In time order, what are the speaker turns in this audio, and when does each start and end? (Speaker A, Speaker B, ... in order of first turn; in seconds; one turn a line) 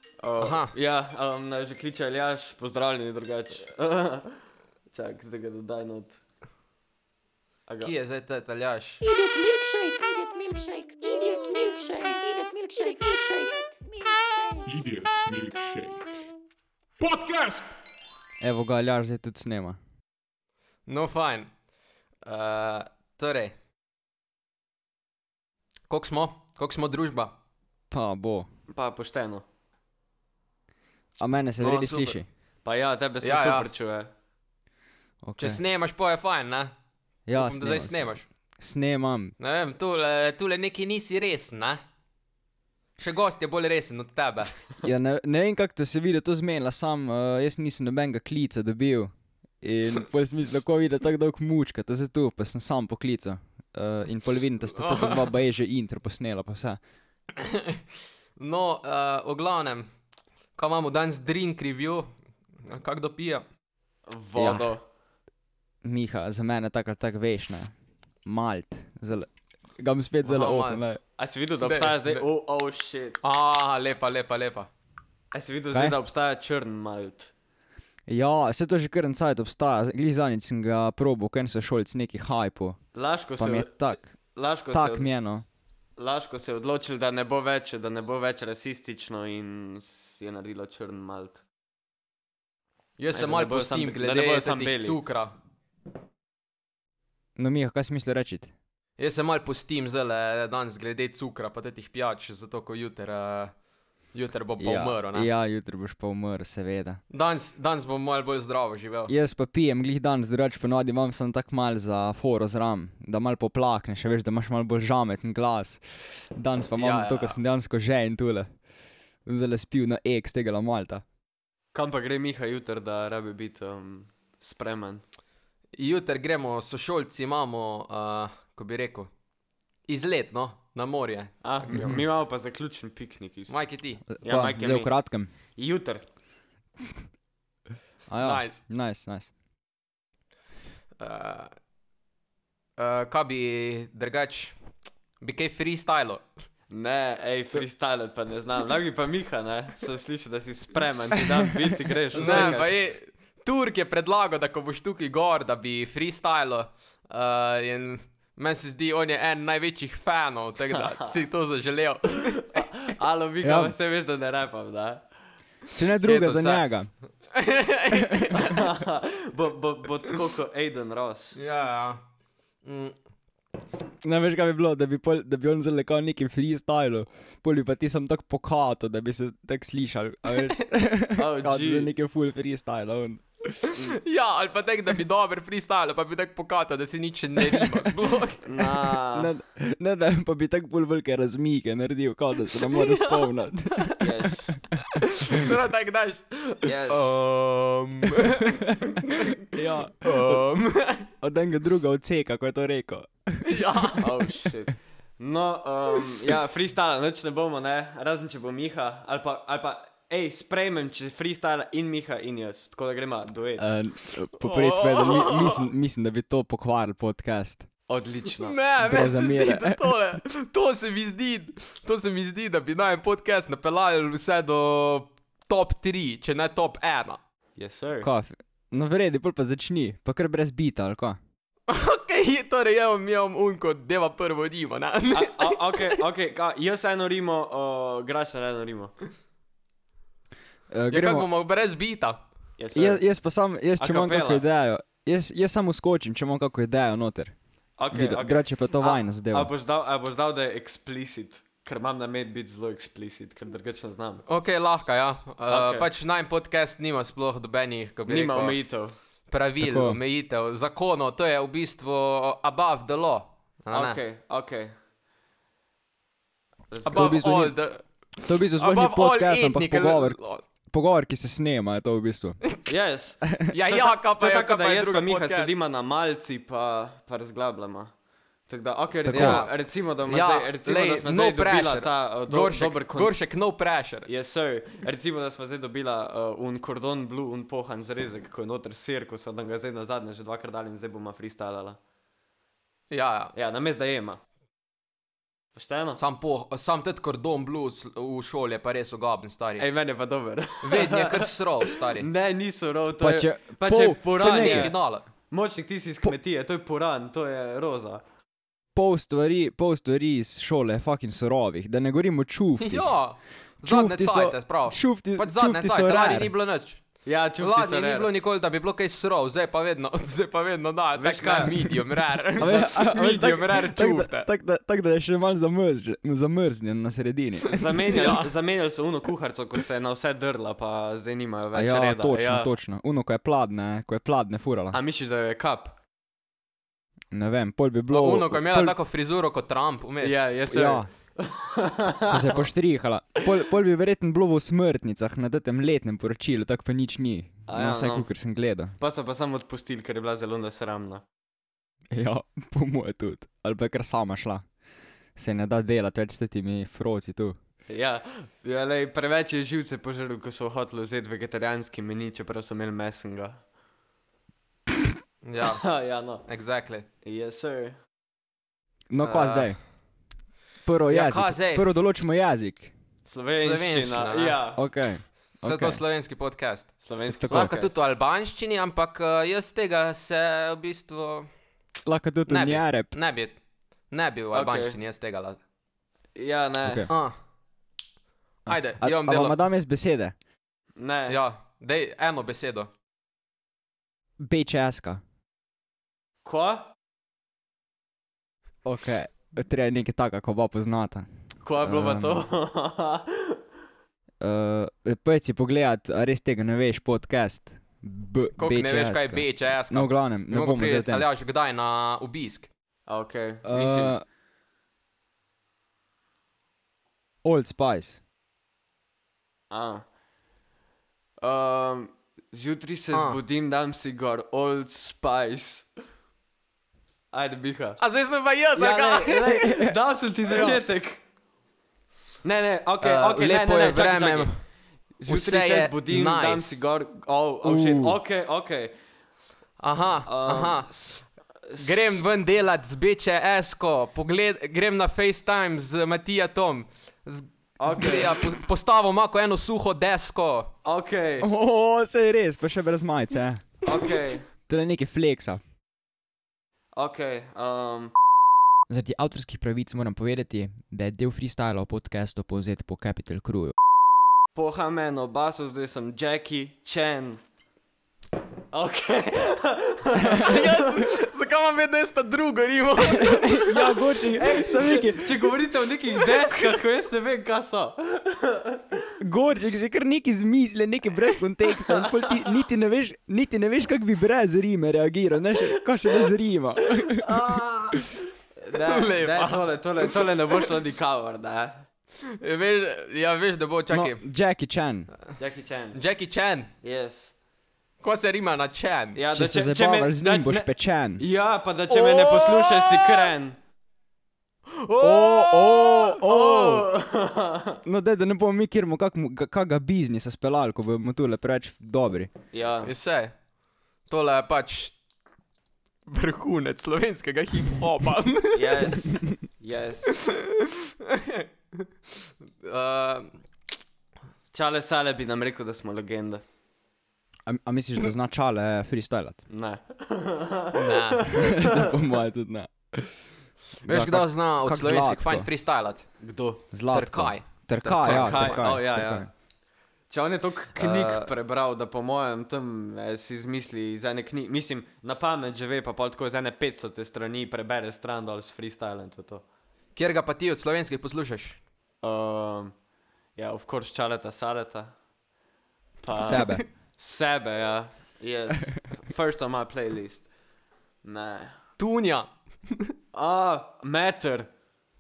Speaker A: 0.2-6.2
Speaker B: 0.4-0.7
Speaker A: 7.7-7.9
Speaker B: 7.8-9.0
Speaker C: 9.0-14.7
Speaker D: 14.7-16.2
Speaker D: 17.0-17.8
Speaker E: 18.4-19.8
Speaker B: 20.9-21.5
Speaker B: 22.2-23.5
Speaker B: 25.9-27.3
Speaker E: 27.9-28.5
Speaker A: 28.7-29.4
Speaker E: 31.2-32.3
Speaker B: 31.6-32.2
Speaker A: 32.6-34.1
Speaker B: 33.2-33.7
Speaker E: 35.2-35.6
Speaker B: 35.4-36.7
Speaker E: 37.3-39.4
Speaker B: 37.4-38.2
Speaker B: 39.4-41.8
Speaker B: 43.0-44.5
Speaker E: 44.8-56.8
Speaker B: 54.8-55.2
Speaker B: 57.4-57.8
Speaker B: 58.4-59.9
Speaker B: 60.5-62.1
Speaker B: 62.6-63.4
Speaker A: 64.1-64.8
Speaker E: 64.4-64.6
Speaker E: 65.8-67.7
Speaker E: 68.2-71.0
Speaker B: 70.2-70.8
Speaker A: 71.2-73.2
Speaker B: 71.6-72.2
Speaker B: 73.2-74.7
Speaker A: 75.3-77.3
Speaker E: 78.1-82.8
Speaker A: 83.0-83.8
Speaker E: 83.4-84.1
Speaker A: 84.3-85.1
Speaker E: 84.7-85.5
Speaker A: 86.0-91.4
Speaker B: 93.0-95.3
Speaker A: 93.1-95.0
Speaker E: 97.4-98.5
Speaker B: 99.0-103.5
Speaker B: 104.1-105.3
Speaker E: 104.6-107.0
Speaker B: 107.1-109.1
Speaker E: 109.1-118.5
Speaker B: 116.8-117.4
Speaker E: 119.3-121.0
Speaker A: 121.7-125.0
Speaker B: 125.7-129.1
Speaker B: 129.9-132.0
Speaker A: 131.4-133.6
Speaker E: 131.7-132.0
Speaker B: 133.5-134.0
Speaker E: 134.1-135.3
Speaker A: 134.2-134.9
Speaker A: 135.6-136.0
Speaker E: 138.1-139.3
Speaker B: 138.2-138.6
Speaker B: 141.0-141.5
Speaker B: 142.8-144.6
Speaker B: 145.2-146.2
Speaker A: 146.7-152.7
Speaker B: 152.1-162.6
Speaker E: 152.2-152.6
Speaker A: 162.4-165.0
Speaker E: 163.4-163.8
Speaker E: 165.7-166.9
Speaker A: 166.0-166.6
Speaker B: 167.3-168.6
Speaker E: 167.9-168.3
Speaker A: 168.4-171.4
Speaker B: 171.3-172.0
Speaker B: 172.6-172.9
Speaker E: 174.0-183.6
Speaker A: 181.2-181.9
Speaker B: 183.7-188.5
Speaker E: 187.4-187.9
Speaker A: 188.4-189.3
Speaker E: 189.1-194.7
Speaker B: 192.7-193.2
Speaker A: 194.0-194.6
Speaker B: 195.0-199.4
Speaker A: 196.6-197.2
Speaker E: 199.5-200.4
Speaker B: 200.0-201.1
Speaker E: 201.2-203.5
Speaker B: 203.4-204.1
Speaker A: 204.0-213.7
Speaker E: 213.6-217.7
Speaker B: 214.4-215.7
Speaker A: 217.9-218.6
Speaker B: 218.4-227.2
Speaker E: 218.8-220.0
Speaker A: 227.6-228.1
Speaker E: 228.0-231.2
Speaker B: 231.7-236.0
Speaker A: 235.1-238.9
Speaker E: 240.7-241.3
Speaker B: 240.9-242.2
Speaker A: 242.6-243.0
Speaker E: 242.7-247.3
Speaker A: 243.8-244.4
Speaker A: 247.8-254.2
Speaker E: 247.9-249.5
Speaker B: 254.3-258.6
Speaker A: 255.5-255.9
Speaker A: 258.1-258.9
Speaker B: 259.3-264.0
Speaker E: 259.6-260.0
Speaker A: 263.7-264.7
Speaker A: 266.7-267.2
Speaker B: 266.8-267.9
Speaker E: 267.0-267.6
Speaker E: 268.2-272.4
Speaker B: 268.5-270.4
Speaker A: 272.7-277.9
Speaker B: 273.5-275.5
Speaker A: 278.5-283.1
Speaker E: 279.1-279.4
Speaker B: 279.1-279.5
Speaker B: 280.1-284.1
Speaker A: 284.1-291.8
Speaker B: 292.9-293.3
Speaker A: 293.4-294.2
Speaker A: 295.6-296.0
Speaker B: 295.9-299.7
Speaker A: 299.6-304.7
Speaker B: 300.6-302.1
Speaker E: 303.0-304.7
Speaker B: 304.2-305.1
Speaker A: 305.3-308.0
Speaker E: 308.8-312.9
Speaker B: 312.6-316.8
Speaker E: 313.6-316.3
Speaker A: 317.1-318.1
Speaker B: 317.4-324.3
Speaker A: 321.0-321.7
Speaker E: 322.4-327.6
Speaker A: 327.5-332.5
Speaker B: 327.7-328.3
Speaker E: 331.5-334.8
Speaker A: 334.7-335.8
Speaker E: 337.1-338.8
Speaker B: 337.9-340.2
Speaker A: 340.0-342.4
Speaker E: 340.5-340.9
Speaker E: 342.1-348.7
Speaker A: 347.5-348.1
Speaker A: 348.8-351.0
Speaker E: 351.9-354.4
Speaker E: 355.2-357.4
Speaker A: 357.7-363.4
Speaker B: 365.2-365.7
Speaker A: 365.4-366.2
Speaker B: 366.2-366.9
Speaker A: 367.0-367.8
Speaker E: 368.9-369.6
Speaker B: 369.0-369.5
Speaker E: 370.6-372.7
Speaker B: 370.9-371.7
Speaker A: 373.1-374.6
Speaker B: 373.4-374.4
Speaker E: 374.6-375.8
Speaker B: 375.4-381.3
Speaker A: 376.8-377.7
Speaker E: 377.1-377.5
Speaker E: 381.8-382.9
Speaker B: 382.3-383.4
Speaker B: 383.9-385.4
Speaker A: 384.3-384.8
Speaker A: 386.1-386.9
Speaker E: 386.6-386.9
Speaker B: 386.9-387.2
Speaker B: 388.5-389.4
Speaker E: 388.5-390.1
Speaker A: 390.8-391.2
Speaker B: 391.1-392.7
Speaker E: 394.2-395.0
Speaker A: 396.2-396.7
Speaker E: 398.6-401.1
Speaker A: 401.4-403.4
Speaker E: 401.6-402.3
Speaker E: 404.2-411.1
Speaker B: 408.4-412.5
Speaker A: 412.9-413.9
Speaker E: 413.4-414.0
Speaker E: 417.2-418.0
Speaker A: 419.5-419.8
Speaker A: 421.2-425.7
Speaker B: 422.9-423.2
Speaker A: 427.1-427.8
Speaker B: 427.8-429.4
Speaker A: 428.6-431.0
Speaker E: 429.4-429.7
Speaker A: 432.2-434.3
Speaker B: 432.8-434.4
Speaker A: 435.0-438.8
Speaker B: 435.1-436.6
Speaker E: 437.4-438.0
Speaker B: 439.6-440.7
Speaker A: 440.1-442.0
Speaker B: 441.6-450.5
Speaker A: 447.6-448.4
Speaker A: 450.6-451.3
Speaker E: 451.2-453.6
Speaker A: 453.6-454.3
Speaker E: 454.5-455.4
Speaker A: 456.8-457.9
Speaker E: 458.7-463.6
Speaker A: 464.4-467.2
Speaker A: 468.5-470.9
Speaker E: 470.0-470.3
Speaker B: 470.2-473.6
Speaker E: 472.8-475.4
Speaker A: 473.9-478.9
Speaker E: 479.0-487.4
Speaker A: 481.5-482.4
Speaker A: 486.8-491.7
Speaker B: 488.7-489.4
Speaker B: 492.0-494.0
Speaker E: 493.7-494.9
Speaker A: 495.2-495.8
Speaker B: 495.7-496.5
Speaker A: 496.6-497.1
Speaker B: 497.8-499.0
Speaker A: 499.0-503.4
Speaker E: 499.1-501.0
Speaker B: 501.7-503.1
Speaker B: 504.5-505.9
Speaker E: 504.8-506.7
Speaker A: 506.0-507.6
Speaker E: 507.6-512.1
Speaker A: 512.3-512.7
Speaker B: 512.6-513.1
Speaker B: 513.9-514.7
Speaker B: 515.9-518.7
Speaker A: 518.3-520.0
Speaker B: 520.0-523.2
Speaker A: 524.3-526.2
Speaker E: 527.3-529.2
Speaker A: 529.3-531.8
Speaker B: 530.5-531.1
Speaker E: 531.1-533.0
Speaker B: 533.6-535.9
Speaker E: 533.6-535.3
Speaker A: 536.0-536.4
Speaker E: 536.5-539.1
Speaker B: 536.7-538.5
Speaker A: 537.8-539.1
Speaker A: 539.9-549.2
Speaker B: 540.6-541.1
Speaker B: 549.8-551.4
Speaker A: 551.8-552.5
Speaker A: 553.2-554.7
Speaker A: 555.8-560.1
Speaker E: 556.0-556.4
Speaker A: 560.8-561.3
Speaker B: 561.6-562.7
Speaker A: 562.9-564.3